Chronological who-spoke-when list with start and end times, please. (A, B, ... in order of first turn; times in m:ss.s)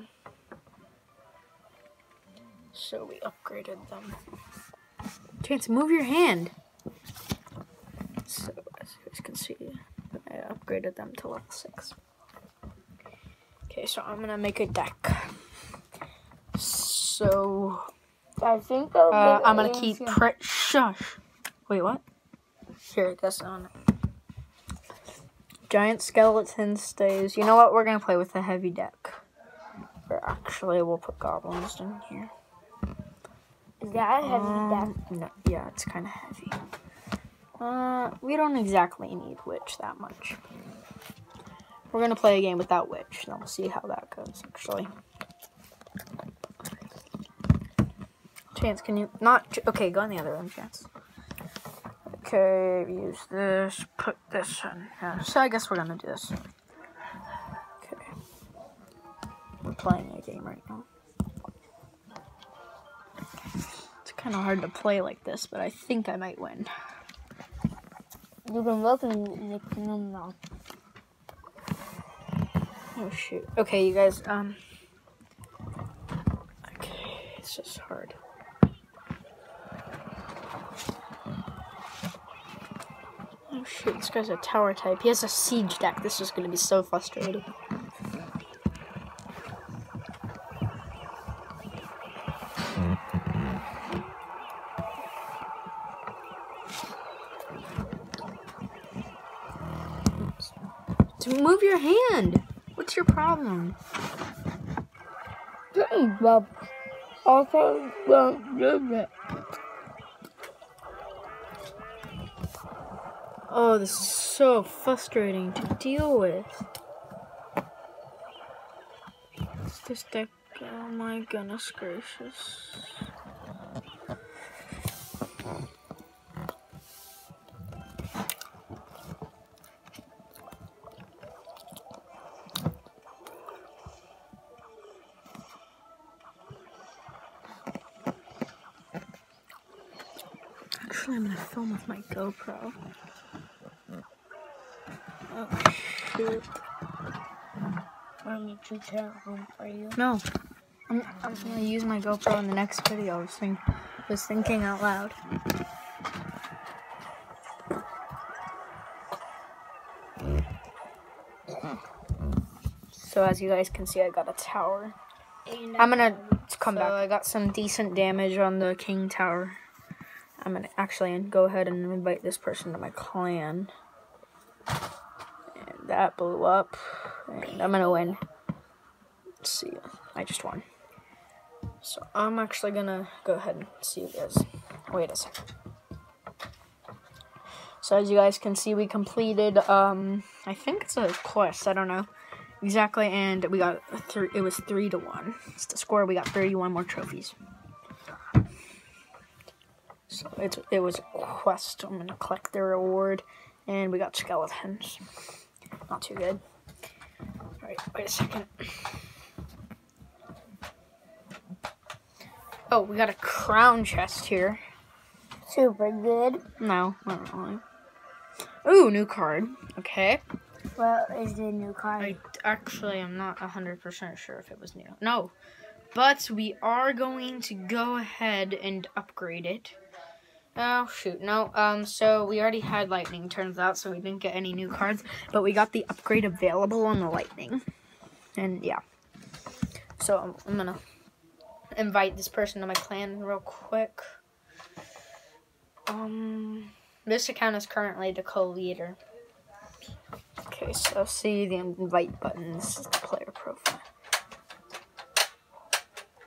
0:02.7-0:04.2 A
0:05.4-0:06.5 A
0:08.2-0:12.0 A
0:13.7-0:15.5 A
0:16.5-0:17.9 A
0:18.4-0:20.2 B
0:19.1-0:22.0 A
0:22.9-0:23.7 A
0:25.7-0:29.2 A
0:30.1-0:32.3 A
0:33.8-0:34.9 B
0:34.2-0:36.6 A
0:37.6-0:40.4 A
0:41.9-0:44.9 A
0:48.5-0:50.9 A
0:52.1-0:56.4 A
0:57.8-0:58.1 A
0:59.6-1:00.9 A
1:04.0-1:06.7 A
1:08.5-1:10.4 B
1:13.0-1:14.6 A
1:16.6-1:18.2 A
1:23.5-1:27.4 A
1:40.2-1:40.5 A
1:41.2-1:43.8 A
1:45.7-1:46.6 B
1:47.2-1:49.1 B
1:53.5-1:56.6 A
1:59.7-2:02.9 A
2:20.8-2:22.8 A
2:25.3-2:26.5 A
2:28.2-2:30.0 B
2:30.0-2:30.2 A
2:30.9-2:35.2 A
2:43.0-2:45.0 A
2:45.5-2:47.0 B
2:45.8-2:49.6 A
2:50.4-2:53.7 A
2:55.5-2:58.2 A
2:59.4-3:00.6 A
3:01.8-3:05.5 A
3:07.8-3:12.1 A
3:12.6-3:17.4 A
3:20.1-3:25.0 A
3:25.9-3:26.4 A
3:27.6-3:29.0 A
3:32.7-3:34.6 A
3:35.5-3:36.4 B
3:36.6-3:37.6 A
3:38.6-3:40.2 A
3:40.8-3:42.2 B
3:42.0-3:45.3 A
3:45.9-3:49.8 A
3:50.6-3:57.6 A
3:58.4-3:58.8 A
4:00.0-4:00.8 A
4:01.7-4:04.2 A
4:05.9-4:09.0 A
4:10.5-4:13.8 A